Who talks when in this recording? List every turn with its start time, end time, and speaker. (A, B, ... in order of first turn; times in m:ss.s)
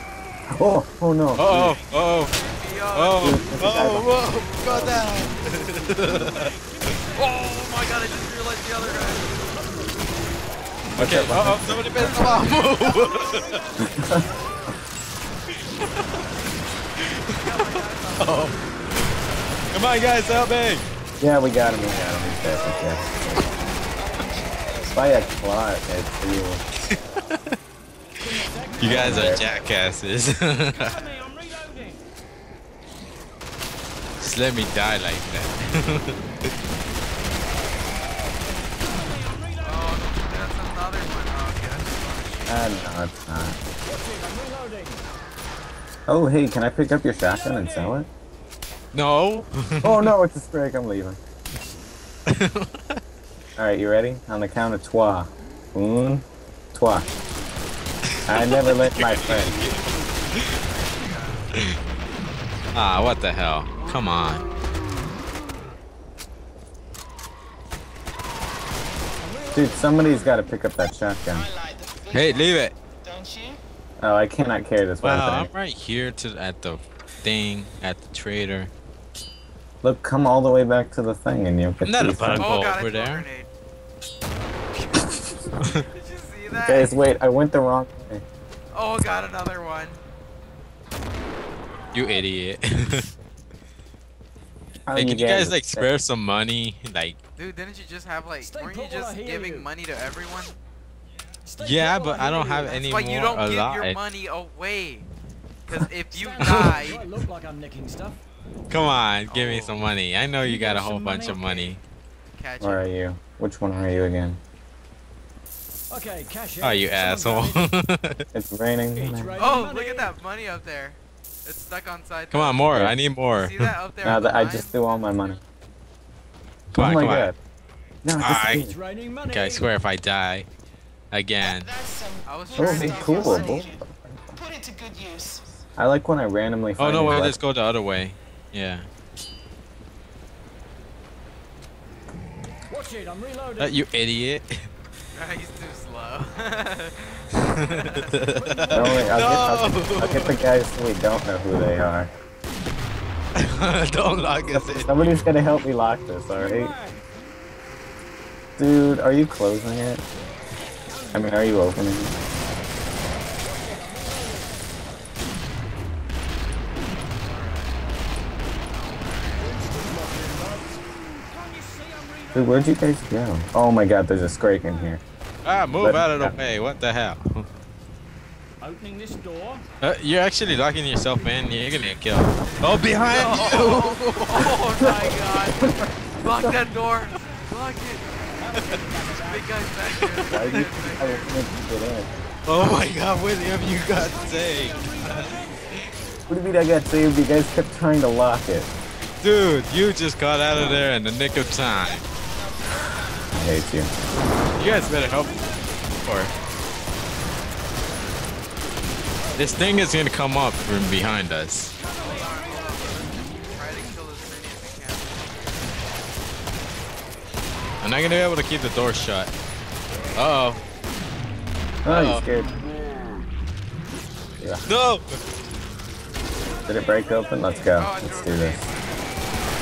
0:00.5-0:01.8 A
0:01.4-0:02.3 B
0:02.4-0:03.4 C
0:02.9-0:06.6 B
0:03.2-0:05.0 A
0:04.0-0:05.0 C
0:07.1-0:09.4 C
0:11.0-0:12.5 A
0:11.0-0:13.6 B
0:13.3-0:13.5 D
0:13.8-0:14.3 A
0:17.0-0:18.6 B
0:17.6-0:18.5 C
0:19.7-0:20.8 B
0:21.2-0:23.1 A
0:24.0-0:25.2 E
0:24.9-0:26.6 A
0:26.9-0:27.5 B
0:28.3-0:28.9 D
0:28.8-0:31.1 B
0:28.8-0:29.4 A
0:31.2-0:31.8 D
0:34.2-0:36.5 B
0:39.6-0:42.9 C
0:42.5-0:43.6 A
0:43.9-0:45.0 D
0:46.1-0:48.1 A
0:48.9-0:50.1 B
0:49.8-0:51.2 A
0:52.3-0:53.0 B
0:53.6-0:57.1 A
0:58.2-0:59.8 B
0:58.2-0:59.6 A
1:00.6-1:01.5 C
1:02.7-1:04.4 B
1:09.5-1:11.5 A
1:11.3-1:13.6 E
1:12.1-1:12.8 B
1:14.0-1:15.5 A
1:15.0-1:18.7 B
1:19.8-1:22.5 A
1:21.8-1:23.3 B
1:22.4-1:23.5 C
1:25.7-1:26.9 C
1:26.6-1:28.2 A
1:28.7-1:30.0 C
1:31.9-1:33.1 B
1:34.9-1:35.9 A
1:34.9-1:37.2 B
1:37.4-1:40.6 C
1:38.5-1:39.6 D
1:41.5-1:42.5 D
1:41.6-1:44.0 B
1:42.6-1:45.1 C
1:45.6-1:47.1 C
1:46.1-1:48.2 D
1:46.4-1:46.8 B
1:48.7-1:51.8 B
1:49.3-1:49.8 C
1:50.6-1:51.4 D
1:51.2-1:51.7 C
1:52.4-1:52.8 C
1:52.6-1:54.4 A
1:55.9-1:57.5 D
1:56.6-1:58.2 B
1:58.3-1:59.4 A
1:59.0-2:00.1 D
1:59.4-2:05.0 C
2:02.3-2:03.7 B
2:04.0-2:05.4 A
2:06.7-2:07.3 B
2:06.7-2:07.3 A
2:08.0-2:08.8 A
2:08.2-2:08.6 B
2:08.7-2:09.5 D
2:09.3-2:10.5 B
2:11.1-2:11.7 B
2:11.4-2:15.6 E
2:12.2-2:13.4 C
2:12.6-2:13.8 A
2:15.8-2:17.4 A
2:16.8-2:18.8 B
2:22.7-2:23.6 D
2:23.6-2:24.7 B
2:25.1-2:28.2 C
2:27.4-2:30.4 B
2:28.4-2:29.0 D
2:28.7-2:32.1 A
2:33.4-2:35.2 B
2:34.5-2:36.7 A
2:38.6-2:40.0 A
2:41.1-2:42.1 A
2:47.2-2:47.9 C
2:48.7-2:49.6 C
2:49.4-2:50.8 D
2:51.5-2:52.3 D
2:52.3-2:55.0 A
2:55.4-2:57.4 B
2:55.8-2:56.3 A
2:58.6-2:59.6 D
2:59.8-3:04.5 B
3:03.0-3:08.2 C
3:04.8-3:06.6 A
3:08.6-3:09.4 D
3:09.1-3:11.3 C
3:10.0-3:10.6 B
3:10.3-3:12.1 A
3:12.4-3:15.5 B
3:14.3-3:15.4 D
3:16.3-3:18.7 A
3:19.2-3:22.1 B
3:22.4-3:23.3 E
3:23.3-3:23.9 A
3:24.6-3:25.4 B
3:26.0-3:26.3 B
3:29.4-3:31.8 B
3:31.9-3:35.9 C
3:37.8-3:39.3 B
3:40.2-3:40.6 B
3:41.8-3:42.5 A
3:41.9-3:42.2 B
3:44.4-3:44.7 A
3:44.6-3:45.2 B
3:46.6-3:48.6 A
3:47.7-3:49.4 C